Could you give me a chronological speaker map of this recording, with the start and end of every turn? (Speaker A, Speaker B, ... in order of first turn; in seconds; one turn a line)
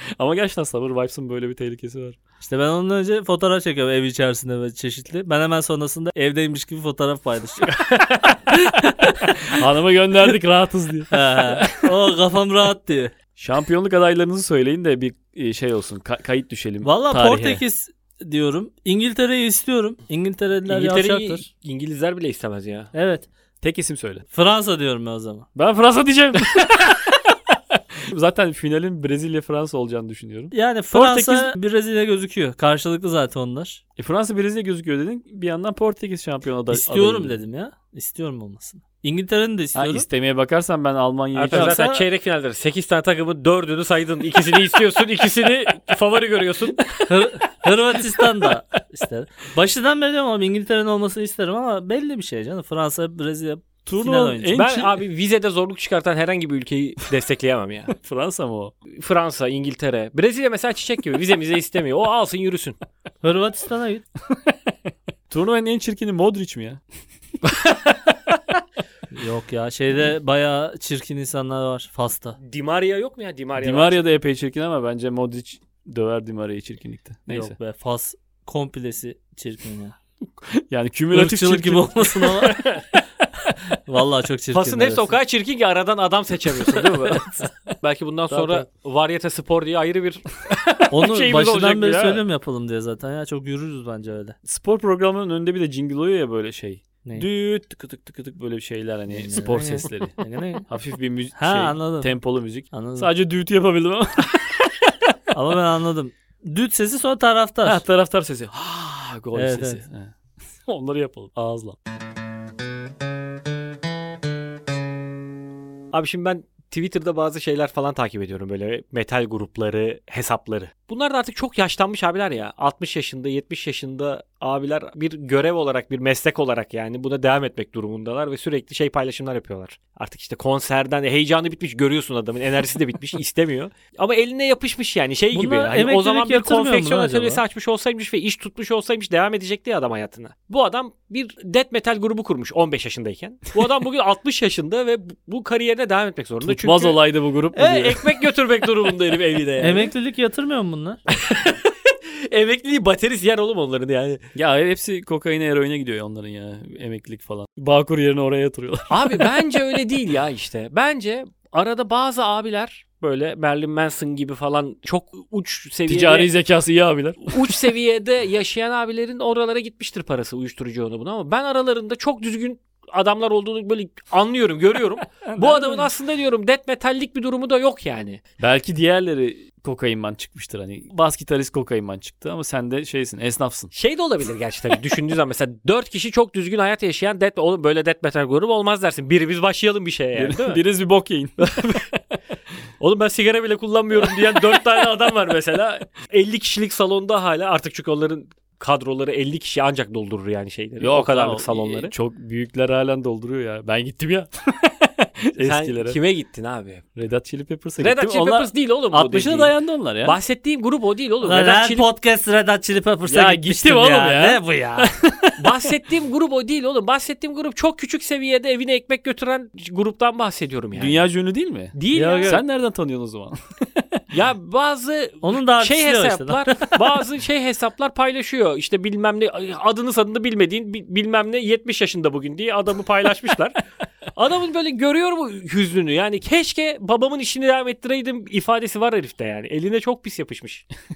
Speaker A: 0.1-2.2
Speaker B: 2.4-7.8
Speaker C: 7.9-8.2
Speaker B: 8.5-9.4
Speaker A: 9.5-11.9
Speaker B: 11.1-13.1
Speaker A: 13.3-17.6
Speaker B: 16.8-21.4
Speaker C: 20.7-22.9
Speaker B: 22.9-23.3
Speaker A: 23.6-24.2
Speaker B: 24.3-25.5
Speaker A: 25.5-27.2
Speaker A: 27.7-31.5
Speaker B: 30.5-33.8
Speaker A: 34.0-37.3
Speaker B: 36.7-40.0
Speaker A: 39.8-41.8
Speaker C: 41.3-47.0
Speaker B: 41.5-42.0
Speaker B: 47.1-54.5
Speaker A: 53.8-55.0
Speaker C: 54.5-57.9
Speaker A: 57.9-58.7
Speaker C: 58.9-62.8
Speaker B: 63.2-64.0
Speaker A: 65.3-66.8
Speaker C: 67.5-67.9
Speaker B: 69.1-72.4
Speaker C: 72.4-74.0
Speaker A: 73.6-77.5
Speaker B: 77.3-80.0
Speaker A: 80.5-83.5
Speaker B: 81.1-82.8
Speaker B: 83.9-85.1
Speaker C: 84.5-92.2
Speaker A: 86.5-87.7
Speaker A: 88.3-88.6
Speaker B: 90.9-94.4
Speaker A: 94.5-100.2
Speaker B: 99.1-100.7
Speaker A: 100.7-104.6
Speaker B: 101.3-102.1
Speaker B: 102.7-103.1
Speaker B: 105.3-107.8
Speaker A: 107.6-110.1
Speaker B: 109.3-109.8
Speaker A: 110.7-111.8
Speaker C: 115.9-147.0
Speaker B: 135.3-137.4
Speaker A: 146.4-148.1
Speaker C: 147.5-149.9
Speaker B: 149.6-151.0
Speaker C: 151.1-154.2
Speaker A: 154.3-159.3
Speaker C: 158.9-166.3
Speaker A: 165.9-167.6
Speaker C: 167.2-178.2
Speaker A: 175.2-175.8
Speaker A: 178.4-183.7
Speaker C: 183.7-190.6
Speaker A: 190.2-192.2
Speaker C: 191.4-191.8
Speaker C: 192.8-201.9
Speaker A: 194.1-194.6
Speaker A: 200.8-206.0
Speaker C: 205.4-206.8
Speaker A: 206.9-210.2
Speaker C: 207.8-211.8
Speaker B: 211.2-214.9
Speaker A: 213.1-215.7
Speaker C: 215.4-221.0
Speaker A: 220.7-224.0
Speaker C: 221.7-222.4
Speaker B: 221.9-222.4
Speaker C: 224.1-233.6
Speaker B: 225.2-226.8
Speaker C: 234.1-240.7